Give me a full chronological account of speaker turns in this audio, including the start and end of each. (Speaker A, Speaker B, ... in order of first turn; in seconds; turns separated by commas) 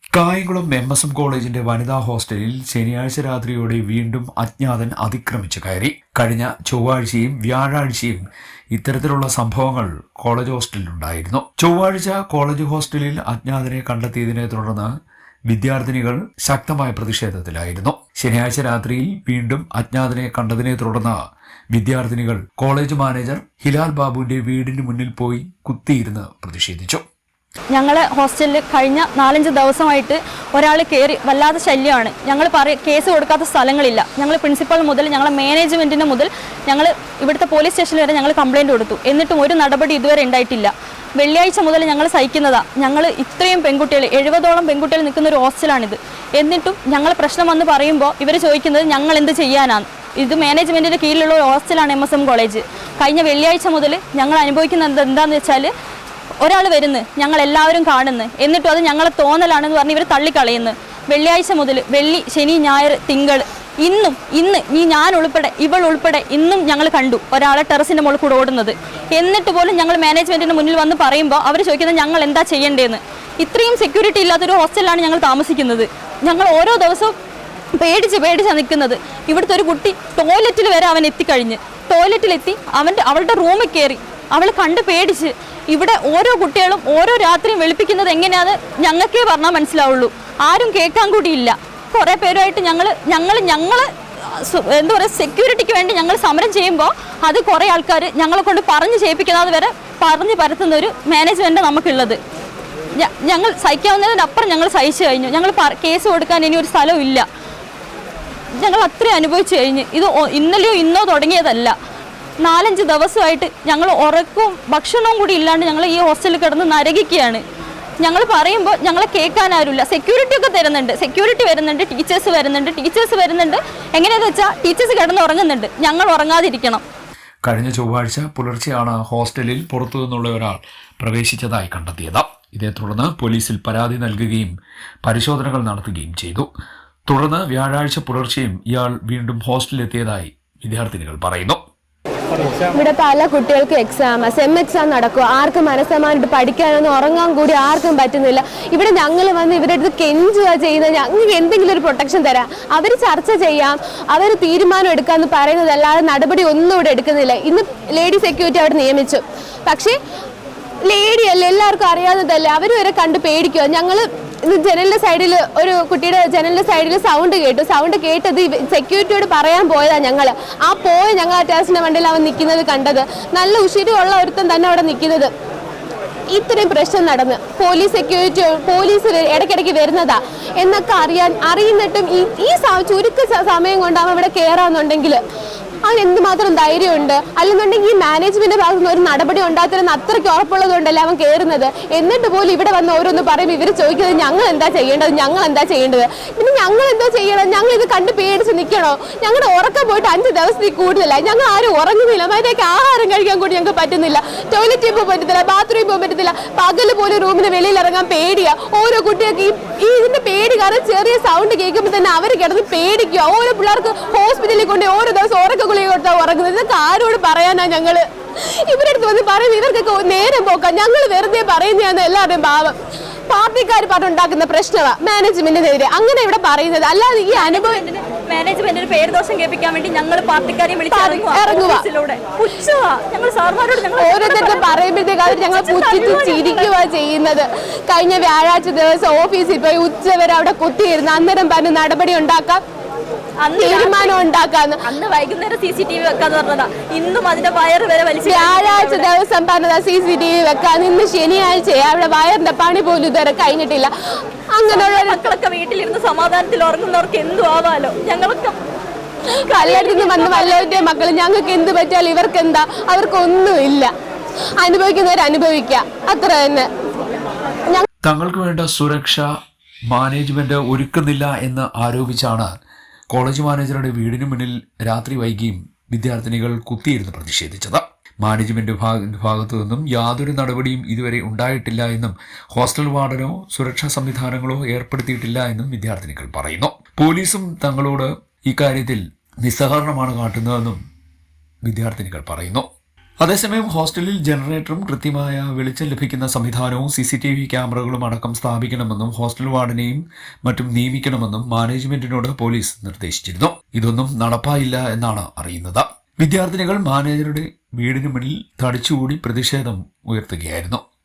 Speaker A: 0.1-14.9, Speaker A: 15.5-21.2, Speaker A: 21.7-27.0, Speaker B: 27.7-55.7, Speaker B: 56.4-77.1, Speaker B: 77.8-102.2, Speaker B: 103.0-107.3, Speaker B: 108.6-111.8, Speaker B: 112.4-117.4, Speaker B: 118.0-126.8, Speaker A: 127.5-136.5, Speaker A: 137.1-141.6, Speaker C: 142.6-160.0, Speaker C: 160.9-175.3, Speaker C: 176.3-185.2, Speaker C: 185.9-218.0, Speaker C: 218.7-222.8, Speaker C: 223.3-227.8, Speaker B: 227.3-236.8, Speaker C: 230.9-231.8, Speaker C: 234.0-242.6, Speaker B: 243.4-244.3, Speaker C: 243.6-244.8, Speaker B: 244.8-249.1, Speaker C: 248.2-253.9, Speaker C: 254.5-255.3, Speaker B: 254.7-258.6, Speaker B: 259.5-260.9, Speaker C: 259.5-263.9, Speaker C: 264.6-266.7, Speaker A: 268.0-269.3, Speaker A: 269.9-272.5, Speaker A: 273.1-290.8, Speaker A: 291.6-292.7, Speaker A: 293.2-310.8